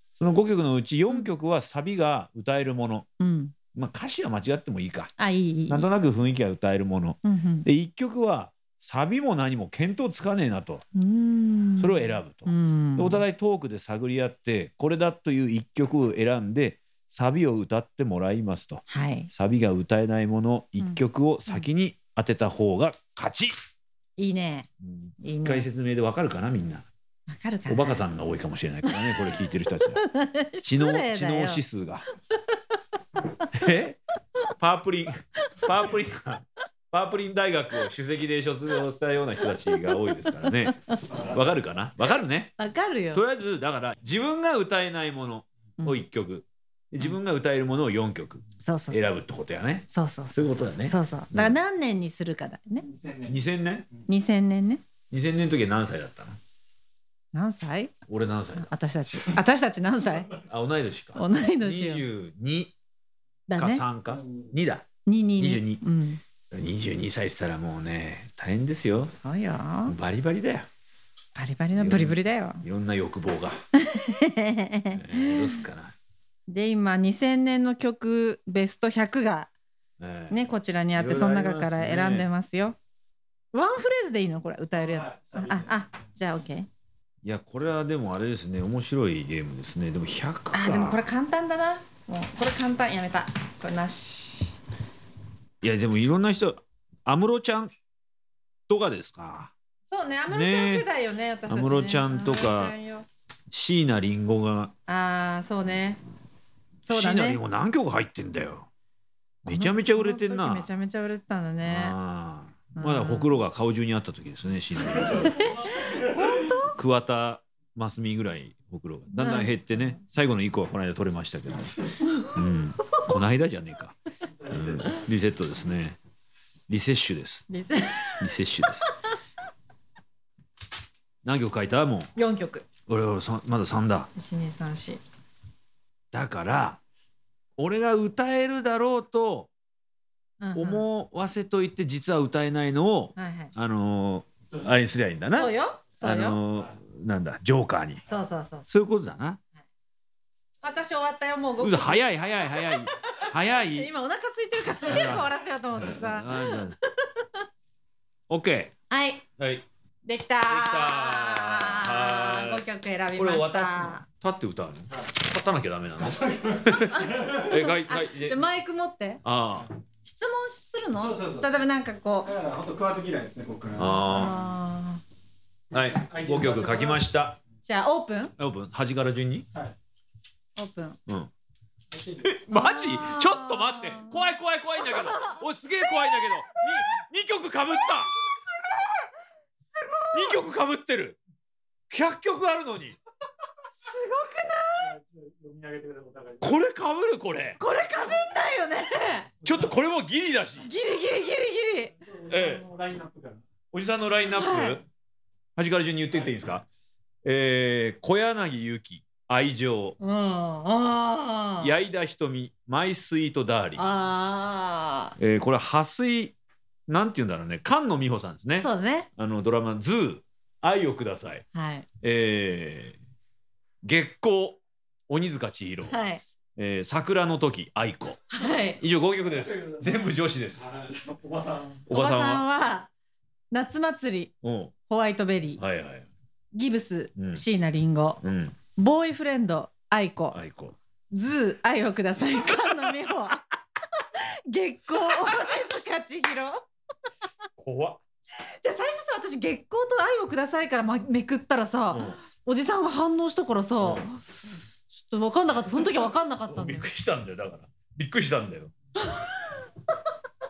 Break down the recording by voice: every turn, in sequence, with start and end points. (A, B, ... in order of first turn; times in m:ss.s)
0:00.2-0:03.1 A
0:03.2-0:03.5 B
0:03.7-0:05.1 A
0:05.2-0:05.9 B
0:05.7-0:10.8 A
0:07.2-0:07.7 B
0:10.9-0:13.2 B
0:11.8-0:23.5 A
0:18.9-0:19.3 B
0:20.8-0:21.7 B
0:24.2-0:24.7 B
0:24.8-0:26.9 A
0:25.2-0:25.7 B
0:27.3-0:28.0 B
0:27.7-0:30.0 A
0:28.9-0:29.2 B
0:30.0-0:31.6 B
0:30.6-0:32.1 A
0:33.6-0:34.0 A
0:34.6-0:42.6 A
0:39.5-0:41.2 B
0:42.6-0:43.2 B
0:43.1-0:51.6 A
0:48.6-0:49.0 B
0:49.9-0:52.9 B
0:52.9-0:53.3 C
0:53.3-0:53.9 A
0:54.1-0:54.8 B
0:55.1-0:56.4 A
0:57.3-0:57.9 B
0:58.1-0:59.2 A
0:58.6-1:00.3 B
1:00.5-1:02.7 A
1:01.2-1:02.0 B
1:03.5-1:03.8 B
1:03.6-1:04.8 A
1:05.1-1:06.2 B
1:05.4-1:05.8 A
1:06.5-1:09.1 A
1:09.1-1:10.0 B
1:09.9-1:10.7 A
1:11.4-1:12.6 B
1:11.8-1:13.6 A
1:13.8-1:15.6 B
1:14.9-1:16.0 A
1:16.5-1:19.5 B
1:20.0-1:20.4 A
1:20.3-1:22.8 B
1:21.0-1:22.3 A
1:23.5-1:26.7 B
1:27.2-1:31.0 A
1:30.5-1:34.6 B
1:35.6-1:37.7 A
1:38.7-1:39.5 A
1:39.9-1:43.1 B
1:40.3-1:40.9 A
1:41.5-1:42.7 A
1:43.5-1:44.7 A
1:44.9-1:46.0 B
1:46.8-1:47.4 B
1:46.9-1:48.7 A
1:49.4-1:50.7 A
1:49.5-1:52.0 B
1:51.6-1:55.5 A
1:52.8-1:53.4 B
1:55.0-1:56.7 B
1:56.5-2:04.0 A
1:59.1-2:00.0 B
2:04.5-2:06.0 A
2:06.7-2:07.5 A
2:07.5-2:08.2 B
2:08.2-2:08.9 A
2:11.2-2:12.1 A
2:12.2-2:12.7 B
2:12.9-2:14.1 A
2:14.1-2:15.0 B
2:16.1-2:16.8 A
2:17.6-2:19.5 A
2:20.4-2:20.8 B
2:20.6-2:28.0 A
2:23.2-2:23.5 B
2:25.3-2:26.4 B
2:28.1-2:28.7 B
2:28.7-2:29.4 A
2:30.6-2:37.4 B
2:31.6-2:33.9 A
2:34.9-2:36.8 A
2:38.3-2:38.7 A
2:38.9-2:39.2 B
2:39.4-2:39.6 A
2:40.0-2:44.0 B
2:40.5-2:42.6 A
2:43.2-2:48.4 A
2:46.8-2:49.2 B
2:49.2-2:49.7 A
2:50.0-2:52.4 B
2:51.1-2:51.4 C
2:52.3-2:53.9 C
2:53.8-2:54.4 A
2:54.1-2:55.0 B
2:55.7-2:57.4 A
2:56.0-2:57.0 C
2:57.6-2:58.3 B
2:58.4-2:59.5 A
3:00.6-3:01.0 B
3:01.9-3:02.2 C
3:02.2-3:08.2 A
3:02.5-3:04.2 B
3:04.8-3:05.4 B
3:06.0-3:06.3 B
3:09.8-3:10.4 B
3:10.1-3:11.2 A
3:11.9-3:13.0 A
3:13.8-3:15.0 B
3:14.9-3:16.4 C
3:16.4-3:17.6 A
3:17.6-3:19.3 B
3:19.4-3:20.7 A
3:20.6-3:21.9 B
3:22.2-3:23.4 C
3:22.3-3:22.6 A
3:23.7-3:24.8 A
3:24.3-3:24.8 B
3:25.6-3:26.7 A
3:27.2-3:30.0 A
3:30.0-3:31.7 B
3:31.6-3:33.8 A
3:33.8-3:35.2 B
3:35.2-3:36.4 A
3:36.9-3:41.4 A
3:38.6-3:39.1 B
3:41.5-3:41.9 B
3:42.0-3:43.0 A
3:43.8-3:46.0 A
3:45.9-3:46.2 B
3:46.6-3:48.2 A
3:48.3-3:48.8 B
3:48.8-3:50.7 A
3:51.0-3:51.7 C
3:51.9-3:52.4 A
3:51.9-3:52.9 B
3:53.5-3:54.4 B
3:54.4-3:54.7 A
3:54.9-3:55.6 B
3:55.6-3:56.1 A
3:56.5-3:58.2 B
3:57.2-3:57.4 A
3:58.2-3:58.6 A
3:58.8-4:00.4 B
4:00.3-4:00.8 A
4:01.1-4:03.4 B
4:04.0-4:06.7 B
4:07.6-4:08.0 A
4:08.4-4:14.2 B
4:11.9-4:12.2 A
4:13.8-4:14.1 A
4:14.9-4:16.9 B
4:15.5-4:18.7 A
4:19.0-4:19.6 B